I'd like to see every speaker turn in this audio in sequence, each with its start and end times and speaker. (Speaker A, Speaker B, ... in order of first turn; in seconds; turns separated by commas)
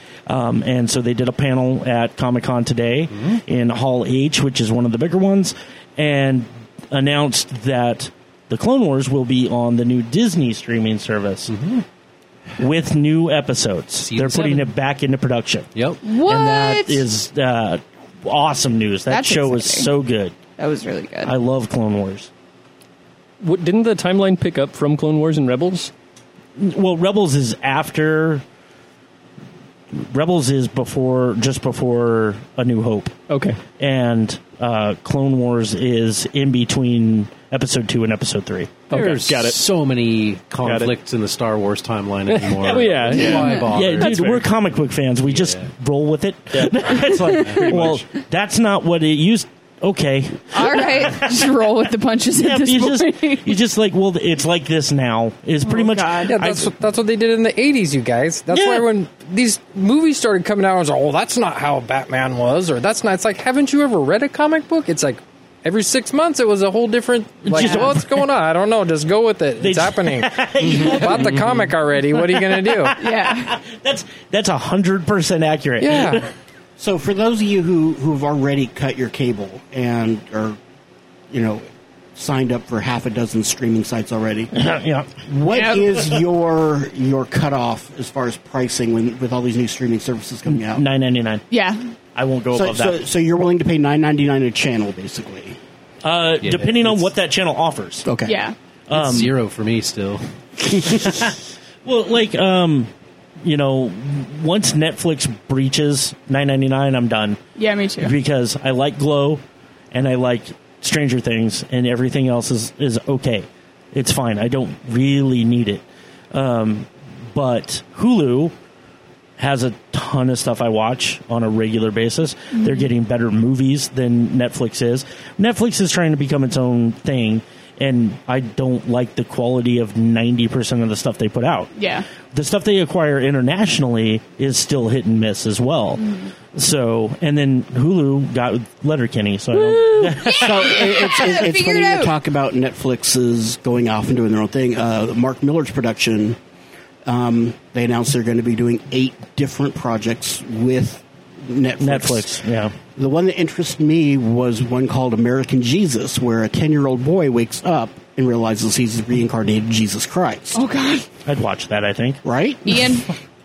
Speaker A: 0.3-11.5, Speaker B: 11.5-11.8, Speaker A: 12.6-20.3, Speaker B: 14.0-14.7, Speaker B: 15.7-16.0, Speaker C: 16.0-17.0, Speaker C: 19.1-19.9, Speaker C: 20.6-21.3, Speaker A: 21.2-22.3, Speaker D: 23.4-25.9, Speaker A: 26.6-28.4, Speaker A: 29.9-33.1, Speaker D: 33.3-33.6, Speaker A: 33.8-38.9, Speaker D: 38.9-39.6, Speaker B: 38.9-44.4, Speaker D: 40.6-40.9, Speaker D: 42.3-44.5, Speaker C: 43.2-44.0, Speaker A: 43.7-51.6, Speaker B: 45.2-45.7, Speaker D: 46.5-46.9, Speaker C: 47.1-47.6, Speaker B: 47.5-47.9, Speaker D: 47.5-48.0, Speaker C: 50.5-53.5, Speaker A: 52.3-56.7, Speaker C: 55.6-56.4, Speaker E: 56.3-72.9, Speaker A: 58.5-58.9, Speaker A: 67.4-68.3, Speaker C: 67.6-67.9, Speaker A: 69.6-71.7, Speaker A: 72.2-76.2, Speaker C: 73.0-73.5, Speaker E: 75.8-76.2, Speaker F: 76.8-80.6, Speaker F: 81.3-84.5, Speaker A: 84.5-85.1, Speaker F: 85.3-90.8, Speaker A: 90.5-91.4, Speaker C: 91.5-91.8, Speaker A: 92.1-93.0, Speaker F: 92.5-95.6, Speaker A: 96.0-98.1, Speaker B: 96.4-97.0, Speaker F: 98.0-98.3, Speaker C: 98.2-98.5, Speaker A: 98.9-99.3, Speaker B: 98.9-100.2, Speaker A: 100.7-102.9, Speaker A: 103.4-107.4, Speaker C: 107.6-108.1, Speaker A: 108.0-109.4, Speaker A: 109.9-118.5, Speaker A: 119.4-131.7, Speaker C: 122.6-122.8, Speaker C: 131.8-132.1, Speaker A: 132.3-140.9, Speaker C: 136.0-136.3, Speaker C: 139.7-142.1, Speaker F: 140.3-146.4, Speaker F: 147.0-152.4, Speaker A: 151.8-152.7, Speaker F: 152.9-160.6, Speaker C: 160.5-161.1, Speaker A: 161.2-162.2, Speaker F: 162.2-162.9, Speaker C: 162.6-163.1